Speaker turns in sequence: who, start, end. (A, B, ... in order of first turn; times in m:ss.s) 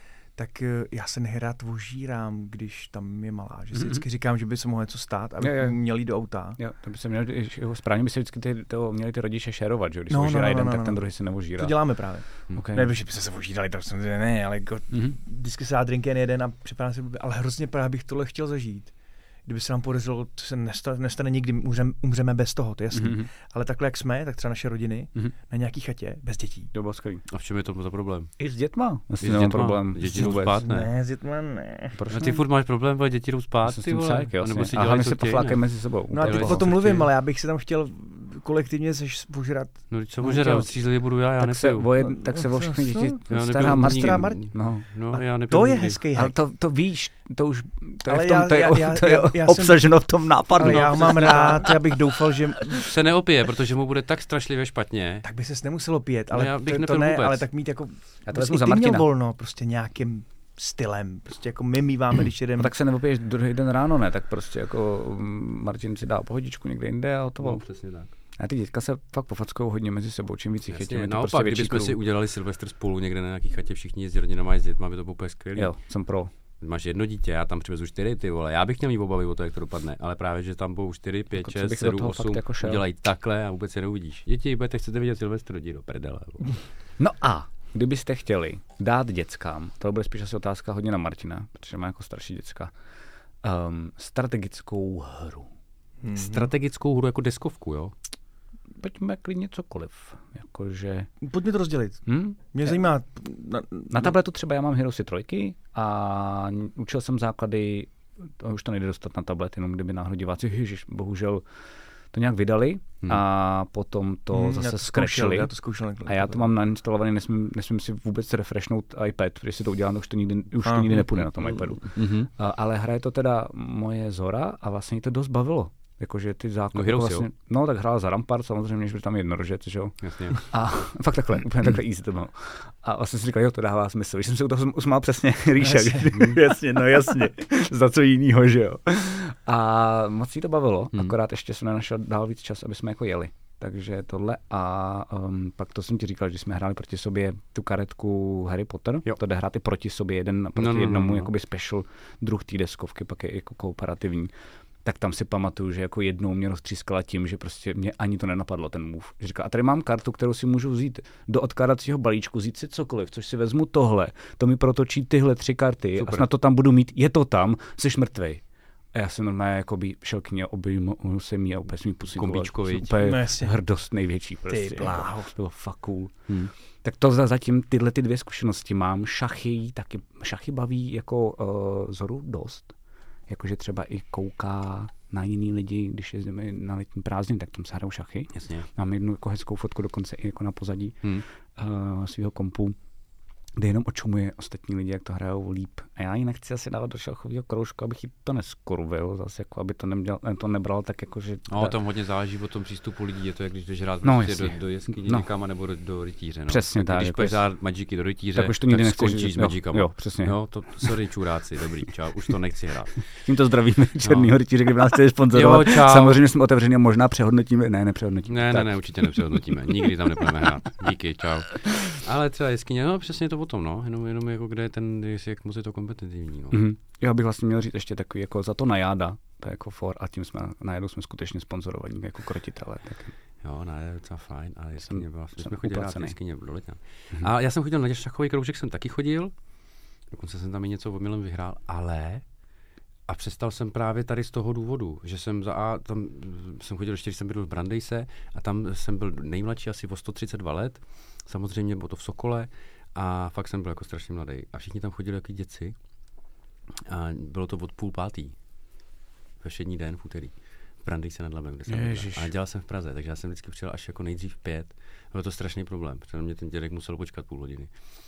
0:00.4-0:06.6 A
0:03.8-0:04.0 B
0:05.4-0:05.8 B
0:06.6-0:11.8 B
0:10.1-0:11.0 A
0:11.6-0:18.9 A
0:12.5-0:12.9 B
0:19.4-0:26.7 A
0:22.9-0:23.3 B
0:26.7-0:27.2 B
0:27.3-0:28.3 C
0:28.4-0:30.6 B
0:29.2-0:30.9 C
0:30.1-0:32.0 A
0:32.0-0:35.6 C
0:33.6-0:36.7 B
0:36.1-0:39.8 A
0:36.2-0:37.1 C
0:39.9-0:42.0 C
0:40.2-0:40.7 B
0:41.4-0:44.9 B
0:42.0-0:44.4 A
0:43.3-0:46.0 C
0:45.1-0:46.3 A
0:46.1-0:51.9 B
0:48.0-0:49.9 A
0:50.5-0:52.8 A
0:50.6-0:51.8 C
0:52.8-0:55.2 C
0:55.2-1:02.7 A
0:56.3-0:57.5 C
0:58.3-0:59.1 B
1:02.6-1:07.6 B
1:07.4-1:08.1 C
1:08.4-1:12.0 B
1:10.7-1:15.7 C
1:15.6-1:16.3 B
1:16.6-1:26.5 C
1:21.4-1:22.8 B
1:27.0-1:32.7 B
1:33.4-1:35.5 B
1:36.0-1:36.5 A
1:36.1-1:37.9 C
1:38.8-1:41.1 B
1:41.2-1:44.1 A
1:42.0-1:42.7 B
1:43.9-1:51.4 B
1:52.1-1:55.5 B
1:54.3-1:56.5 A
1:56.0-2:34.3 B
2:00.6-2:01.0 A
2:01.4-2:02.3 C
2:06.7-2:07.3 C
2:10.0-2:10.4 C
2:30.6-2:31.3 C
2:34.8-2:48.4 B
2:46.0-2:46.3 C
2:48.9-2:56.1 B
2:52.1-2:53.1 C
2:53.0-2:53.5 A
2:54.5-2:55.3 A
2:56.8-3:02.7 B
3:03.3-3:11.0 B
3:08.3-3:08.6 C
3:11.6-3:12.8 B
3:13.6-3:21.8 B
3:21.5-3:33.0 C
3:24.0-3:25.3 B
3:26.5-3:27.4 B
3:28.3-3:30.9 B
3:33.2-3:38.9 B
3:34.0-3:34.3 C
3:35.3-3:36.2 C
3:38.3-3:46.6 C
3:46.5-3:53.1 B
3:53.4-3:59.3 C
3:54.8-3:56.2 B
4:00.1-4:02.2 C
4:03.1-4:15.7 C
4:16.8-4:18.3 C
4:19.4-4:27.7 C
4:21.7-4:22.3 B